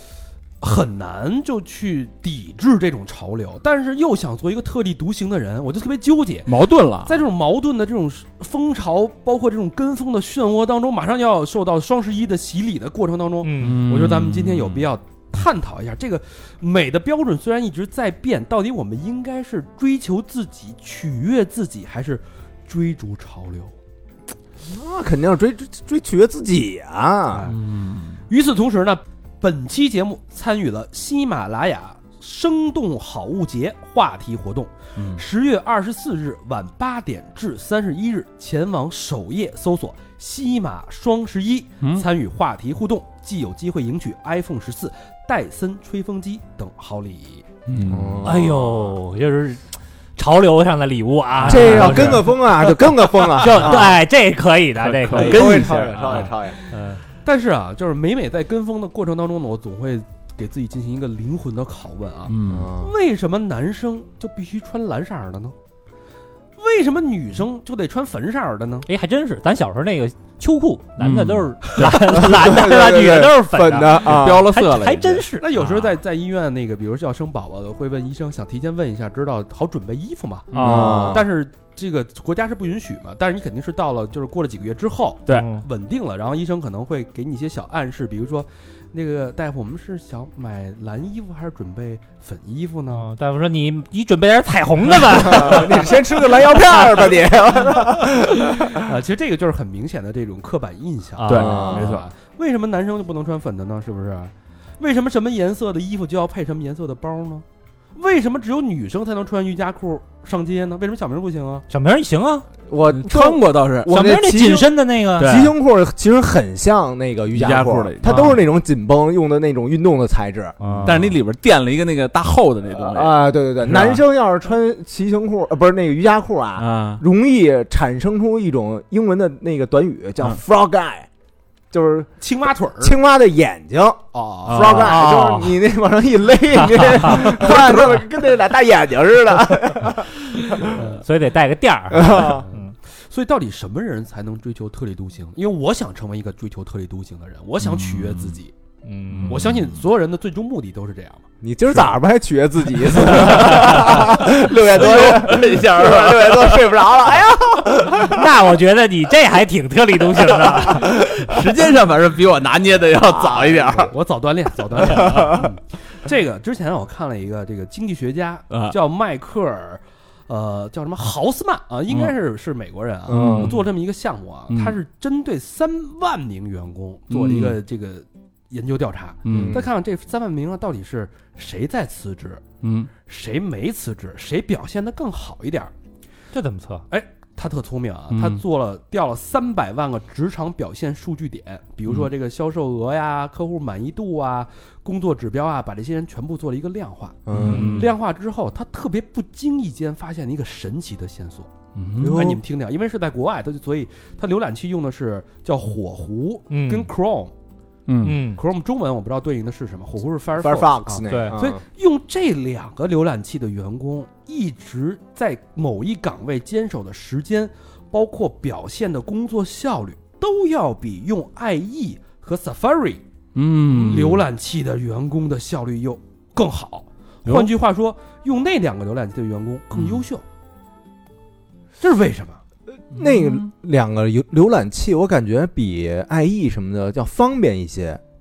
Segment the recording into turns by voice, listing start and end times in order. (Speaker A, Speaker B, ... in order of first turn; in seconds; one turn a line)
Speaker A: 0.6-6.5
Speaker B: 6.5-7.2
Speaker A: 7.0-23.7
Speaker C: 13.4-13.8
Speaker B: 13.6-14.9
Speaker D: 24.6-27.5
Speaker A: 27.3-27.6
Speaker B: 27.4-28.2
Speaker A: 28.3-47.5
Speaker B: 35.0-35.2
Speaker B: 41.8-42.0
Speaker B: 47.7-48.3
Speaker D: 47.8-48.9
Speaker C: 48.2-49.6
Speaker C: 50.2-57.0
Speaker B: 51.4-52.2
Speaker D: 51.4-53.9
Speaker B: 54.8-56.3
Speaker D: 55.1-56.6
Speaker A: 57.0-65.5
Speaker B: 62.2-62.7
Speaker D: 62.5-62.9
Speaker A: 66.6-68.9
Speaker C: 68.9-75.8
Speaker B: 71.0-72.1
Speaker D: 71.8-74.5
Speaker B: 73.8-75.2
Speaker A: 75.4-93.1
Speaker C: 80.5-81.2
Speaker B: 80.5-81.2
Speaker D: 80.5-81.2
Speaker C: 85.3-85.6
Speaker C: 92.9-97.1
Speaker D: 95.1-98.8
Speaker A: 98.3-107.4
Speaker C: 101.2-101.7
Speaker B: 101.3-102.1
Speaker D: 101.3-102.0
Speaker A: 108.0-111.7
Speaker C: 111.7-112.5
Speaker D: 112.7-120.5
Speaker B: 112.9-113.9
Speaker C: 113.8-115.3
Speaker B: 115.2-115.5
Speaker B: 117.3-118.4
Speaker C: 118.0-118.4
Speaker C: 120.6-121.2
Speaker B: 120.8-124.0
Speaker D: 122.7-131.1
Speaker B: 126.6-127.0
Speaker D: 131.7-132.1
Speaker A: 132.2-132.9
Speaker D: 132.8-140.7
Speaker A: 134.1-134.9
Speaker B: 134.4-135.0
Speaker C: 134.8-135.6
Speaker C: 136.6-137.5
Speaker C: 140.6-142.7
Speaker A: 140.7-141.0
Speaker D: 141.9-142.4
Speaker A: 142.1-148.5
Speaker B: 147.6-148.4
Speaker C: 148.8-149.5
Speaker B: 149.1-149.7
Speaker A: 149.3-151.2
Speaker D: 151.4-158.3
Speaker B: 152.7-157.0
Speaker C: 158.1-161.0
Speaker B: 160.5-163.9
Speaker D: 161.1-161.5
Speaker D: 163.1-163.9
Speaker A: 163.8-182.4
Speaker B: 164.8-165.4
Speaker D: 165.0-165.5
Speaker B: 168.5-168.8
Speaker B: 171.9-172.1
Speaker D: 173.1-173.6
Speaker B: 173.1-173.6
Speaker B: 174.5-174.8
Speaker B: 177.1-177.6
Speaker B: 179.2-179.6
Speaker D: 179.3-179.7
Speaker B: 182.6-182.9
Speaker A: 183.0-185.7
Speaker C: 186.3-186.8
Speaker A: 186.9-201.5
Speaker B: 188.1-188.4
Speaker D: 197.2-197.8
Speaker B: 197.3-197.9
Speaker C: 197.4-197.9
Speaker B: 201.7-202.2
Speaker D: 202.0-202.4
Speaker A: 202.0-207.3
Speaker C: 206.5-206.9
Speaker B: 207.8-208.2
Speaker C: 208.0-208.4
Speaker A: 208.3-223.0
Speaker D: 210.4-211.6
Speaker C: 211.1-211.3
Speaker B: 223.3-224.2
Speaker A: 223.7-230.2
Speaker B: 227.2-227.5
Speaker B: 229.7-230.0
Speaker A: 231.8-232.4
Speaker D: 232.9-238.0
Speaker B: 232.9-233.5